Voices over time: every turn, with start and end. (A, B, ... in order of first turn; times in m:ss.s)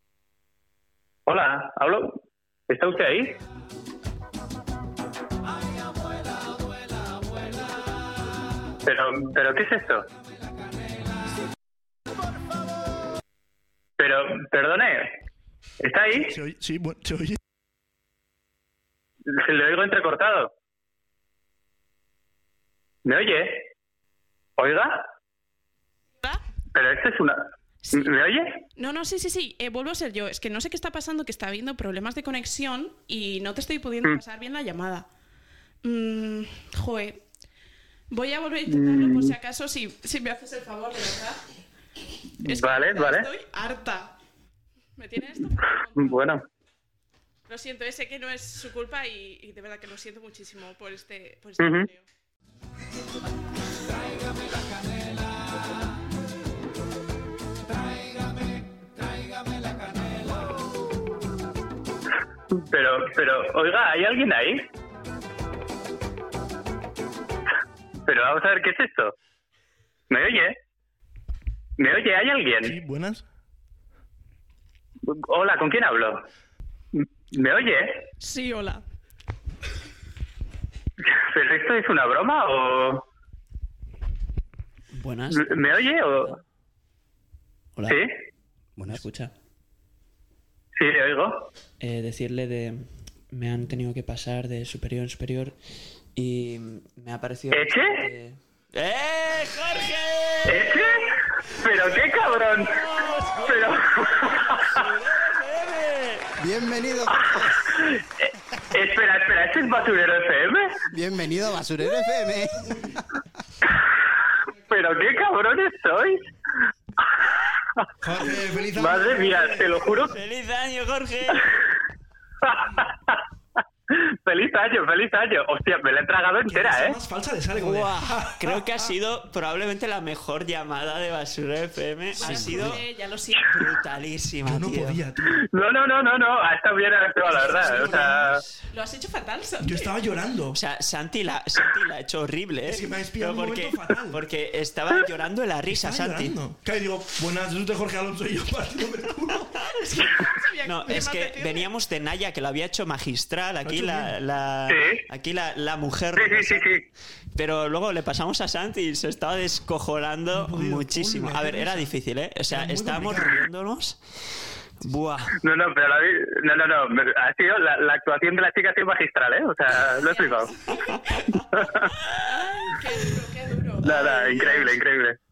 0:01.2-0:03.4 A
0:08.8-0:10.1 A
0:14.0-0:15.2 A
0:15.8-0:16.4 A
0:16.1-0:17.4 B
0:19.3-0:20.5 A
0:23.0-0:23.7 A
0:24.6-0:25.1 A
0:26.7-0:28.6 A
0:27.8-0:28.1 C
0:28.8-0:35.1 C
0:35.8-0:37.2 C
0:38.1-0:41.4 C
0:38.7-0:39.4 A
0:42.4-0:43.3 A
0:42.4-0:44.1 C
0:45.0-0:46.2 C
0:46.0-0:46.4 A
0:47.5-0:52.0 C
0:51.6-0:51.9 A
1:02.5-1:04.6 A
1:08.0-1:09.1 A
1:10.1-1:10.6 A
1:11.8-1:12.8 A
1:12.6-1:13.2 B
1:15.1-1:16.2 A
1:16.9-1:18.0 A
1:18.2-1:18.8 C
1:21.1-1:23.0 A
1:24.9-1:25.6 D
1:25.3-1:26.4 A
1:28.8-1:29.0 E
1:28.9-1:29.3 D
1:30.8-1:31.5 A
1:31.8-1:35.6 D
1:36.2-1:40.9 D
1:37.5-1:38.0 A
1:40.4-1:42.8 A
1:42.5-1:46.3 D
1:43.4-1:44.8 A
1:46.4-1:47.7 E
1:47.4-1:50.8 A
1:50.9-1:53.0 E
1:54.7-1:56.2 A
1:58.0-2:00.0 B
1:58.7-2:00.1 A
2:00.1-2:01.4 D
2:02.4-2:03.2 A
2:03.9-2:07.0 A
2:06.5-2:08.6 B
2:07.6-2:12.8 D
2:12.2-2:13.5 C
2:12.2-2:12.8 E
2:13.5-2:15.0 D
2:14.4-2:15.4 B
2:15.3-2:18.4 A
2:17.3-2:18.4 D
2:17.5-2:18.1 C
2:18.7-2:19.9 C
2:19.6-2:20.6 B
2:20.5-2:26.4 D
2:22.6-2:24.2 B
2:25.7-2:29.7 B
2:29.8-2:31.7 C
2:30.6-2:36.7 D
2:33.6-2:34.1 B
2:34.7-2:35.0 A
2:36.2-2:36.8 A
2:37.4-2:44.0 D
2:40.3-2:41.9 B
2:42.5-2:43.4 B
2:44.8-2:45.4 D
2:45.4-2:50.5 A
2:49.9-2:51.4 C
2:51.5-2:51.9 A
2:52.2-2:54.8 C
2:53.8-2:55.2 A